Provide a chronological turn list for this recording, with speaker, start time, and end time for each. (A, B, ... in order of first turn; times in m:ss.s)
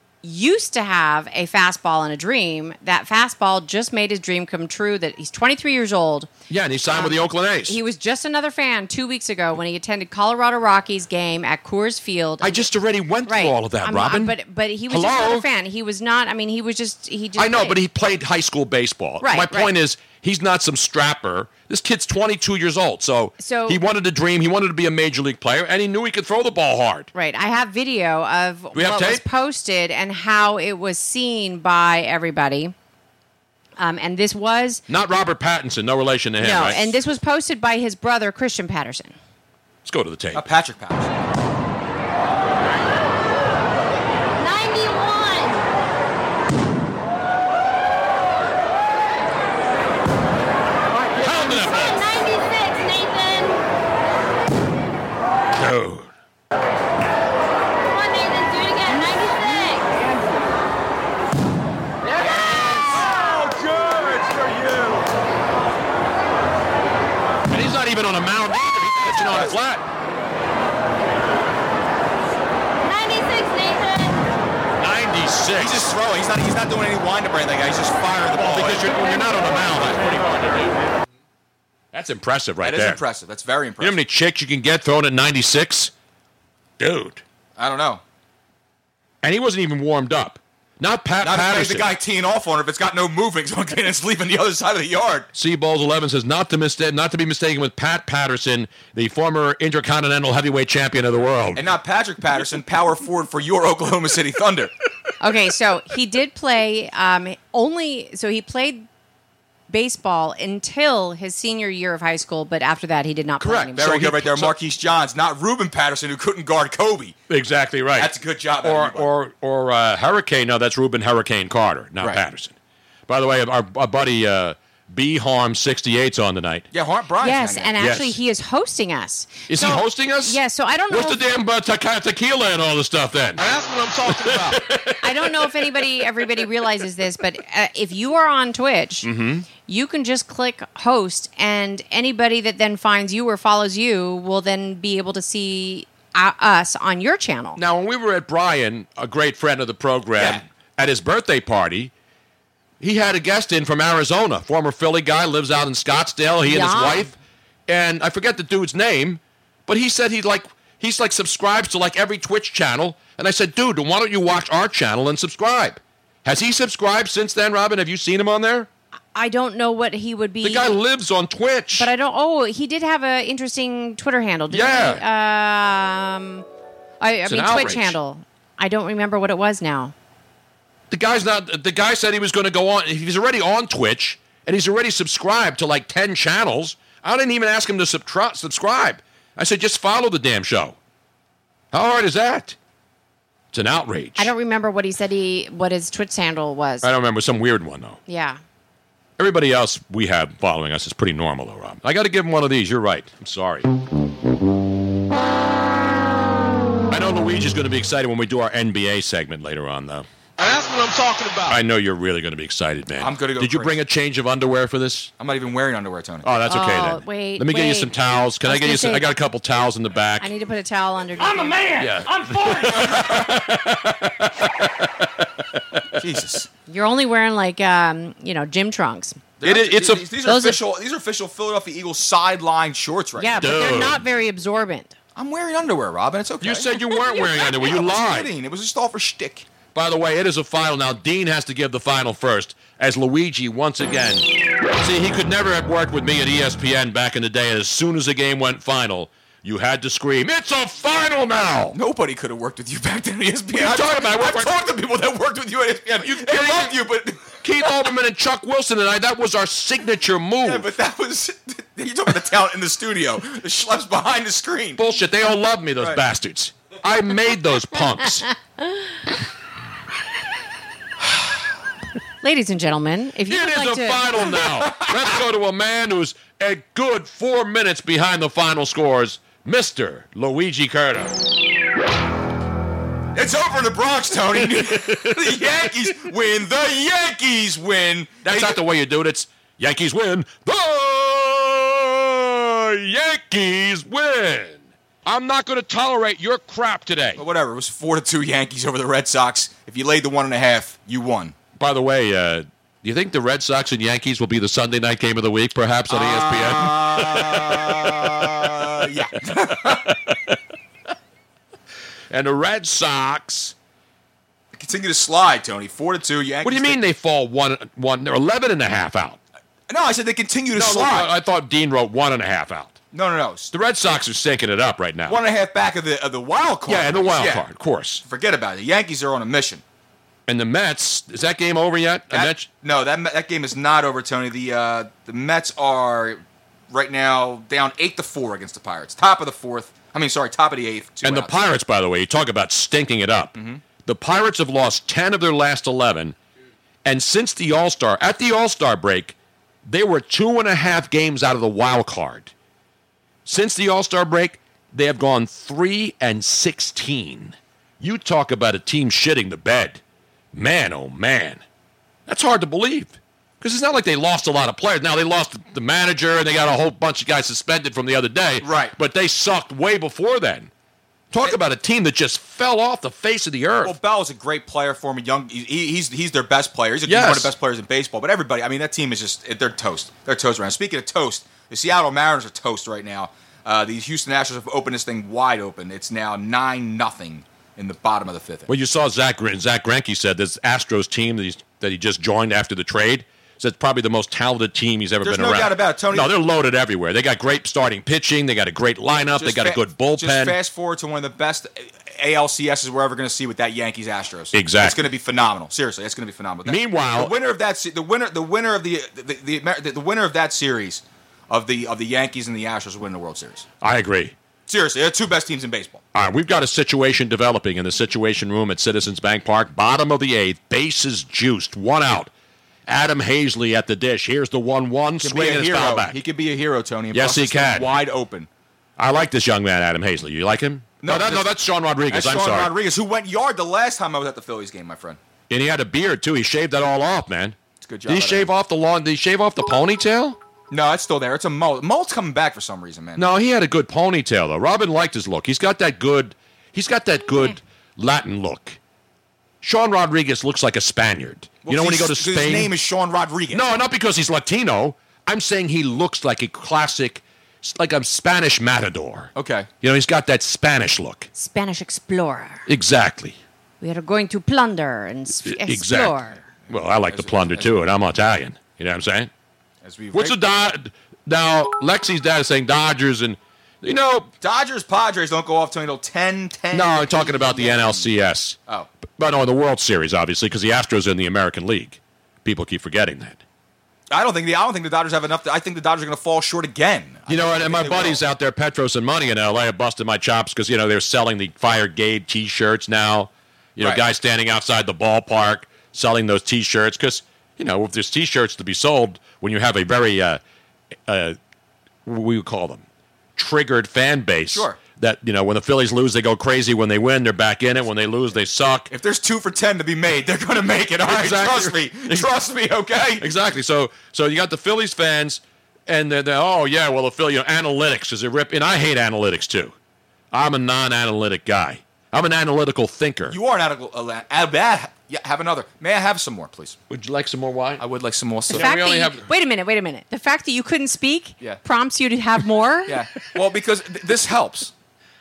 0:00.2-0:06.3 A
0:06.5-0:07.8 B
0:06.9-0:12.7 A
0:12.4-0:14.4 B
0:13.3-0:17.8 A
0:14.9-0:15.5 B
0:17.4-0:27.1 B
0:19.2-0:19.7 A
0:23.4-0:23.8 A
0:27.1-0:32.7 A
0:28.7-0:29.2 B
0:33.8-0:34.8 A
0:34.9-0:37.0 B
0:36.4-0:39.2 A
0:39.8-0:40.4 B
0:40.3-0:41.1 C
0:44.5-0:45.6 D
0:51.2-0:52.2 B
0:51.4-0:51.8 A
0:52.2-0:53.6 D
0:55.6-0:56.1 B
0:58.0-0:59.8 D
1:07.5-1:09.8 B
1:12.9-1:14.2 D
1:14.8-1:15.9 B
1:15.6-1:19.0 C
1:18.3-1:20.8 B
1:21.9-1:23.0 B
1:22.6-1:24.0 C
1:23.8-1:25.9 B
1:26.8-1:27.2 B
1:27.6-1:28.0 C
1:29.2-1:31.9 B
1:31.2-1:35.3 C
1:35.3-1:41.7 B
1:41.6-1:44.7 C
1:45.2-1:48.9 A
1:49.7-1:53.9 A
1:53.4-1:54.5 B
1:53.8-1:57.2 C
1:57.3-1:58.1 B
1:58.0-1:59.1 C
1:58.6-2:02.5 B
2:03.1-2:06.7 B
2:06.7-2:07.8 C
2:07.2-2:11.2 A
2:07.8-2:08.2 B
2:09.5-2:15.7 B
2:13.4-2:14.6 E
2:15.0-2:27.6 A
2:19.0-2:19.5 B
2:27.6-2:31.9 B
2:30.2-2:30.4 C
2:32.8-2:37.2 B
2:36.4-2:37.1 A
2:37.7-2:48.7 B
2:49.2-2:50.8 A
2:50.4-2:51.9 B
2:51.7-2:56.4 A
2:54.5-2:55.0 B
2:57.0-2:59.9 A
2:57.3-2:58.0 B
3:00.9-3:10.8 B
3:11.7-3:12.6 B
3:13.5-3:14.3 B
3:14.2-3:16.9 A
3:16.8-3:18.0 B
3:18.1-3:18.4 A
3:19.2-3:23.7 B
3:26.9-3:30.1 B
3:30.4-3:31.6 E
3:31.5-3:35.1 B
3:33.0-3:33.8 C
3:35.2-3:36.3 C
3:36.2-3:40.3 B
3:36.5-3:39.1 A
3:40.2-3:41.7 A
3:41.8-3:44.8 B
3:46.0-3:46.5 C
3:46.7-3:49.2 A
3:49.4-3:53.5 C
3:49.4-3:50.1 B
3:50.3-3:50.6 A
3:53.2-3:55.0 A
3:53.4-3:54.0 B
3:55.2-3:56.7 C
3:56.4-3:58.3 B
3:57.4-3:59.5 C
3:59.7-4:11.8 B
4:11.7-4:17.4 C
4:13.6-4:14.5 B
4:16.0-4:16.8 B
4:17.4-4:20.7 B
4:20.4-4:24.8 C
4:24.8-4:28.3 B
4:32.2-4:34.1 A
4:33.3-4:41.2 B
4:43.2-4:48.6 C
4:44.4-4:45.4 B
4:48.2-4:57.2 B
4:57.2-5:01.4 C
5:01.6-5:08.3 B
5:05.9-5:09.9 C
5:12.1-5:13.5 B
5:14.6-5:16.8 C
5:16.4-5:19.2 B
5:19.7-5:21.1 C
5:20.5-5:22.8 B
5:22.9-5:23.5 C
5:23.5-5:25.2 B
5:25.1-5:27.4 C
5:26.7-5:28.0 B
5:28.0-5:29.6 C
5:30.3-5:32.5 B
5:32.1-5:41.4 C
5:41.0-5:46.2 B
5:43.4-5:43.6 C
5:46.8-5:49.2 B
5:49.7-5:52.3 B
5:53.3-5:59.8 B
6:00.3-6:01.4 B
6:02.1-6:10.5 B
6:08.4-6:08.7 C
6:11.1-6:13.8 B
6:13.6-6:28.5 C
6:16.9-6:17.3 B
6:28.5-6:40.4 B
6:35.0-6:36.1 C
6:38.9-6:53.5 C
6:44.3-6:44.8 B
6:46.5-6:47.1 B
6:53.6-6:54.2 B
6:54.5-6:55.8 C
6:55.9-7:02.1 B
7:02.7-7:06.0 B
7:05.0-7:08.3 C
7:06.9-7:07.7 B
7:08.8-7:12.5 B
7:10.8-7:11.3 C
7:11.9-7:15.0 C
7:15.3-7:17.4 B
7:17.6-7:18.3 C
7:17.9-7:20.2 B
7:20.5-7:23.0 C
7:23.0-7:28.6 B
7:29.4-7:32.5 B
7:31.4-7:33.5 C
7:33.3-7:41.1 B
7:39.2-7:39.5 C
7:41.2-7:42.5 A
7:42.5-7:43.2 B
7:43.6-7:46.2 A
7:45.2-7:46.0 B
7:46.4-7:47.5 C
7:46.5-7:49.1 B
7:49.6-7:50.2 C
7:49.9-7:54.1 B
7:54.2-7:57.9 C
7:56.5-7:58.4 B
7:59.0-8:03.2 B
8:03.9-8:08.0 C
8:07.1-8:20.2 B
8:20.9-8:21.2 B
8:21.9-8:22.6 B
8:23.2-8:28.7 B
8:24.3-8:24.6 C
8:28.7-8:33.0 C
8:30.9-8:32.1 B
8:33.0-8:39.6 B
8:40.1-8:43.2 B
8:43.1-8:46.6 C
8:46.7-8:47.6 B
8:47.6-8:48.6 C
8:48.3-8:49.1 B
8:48.3-8:52.8 A
8:52.7-8:54.5 C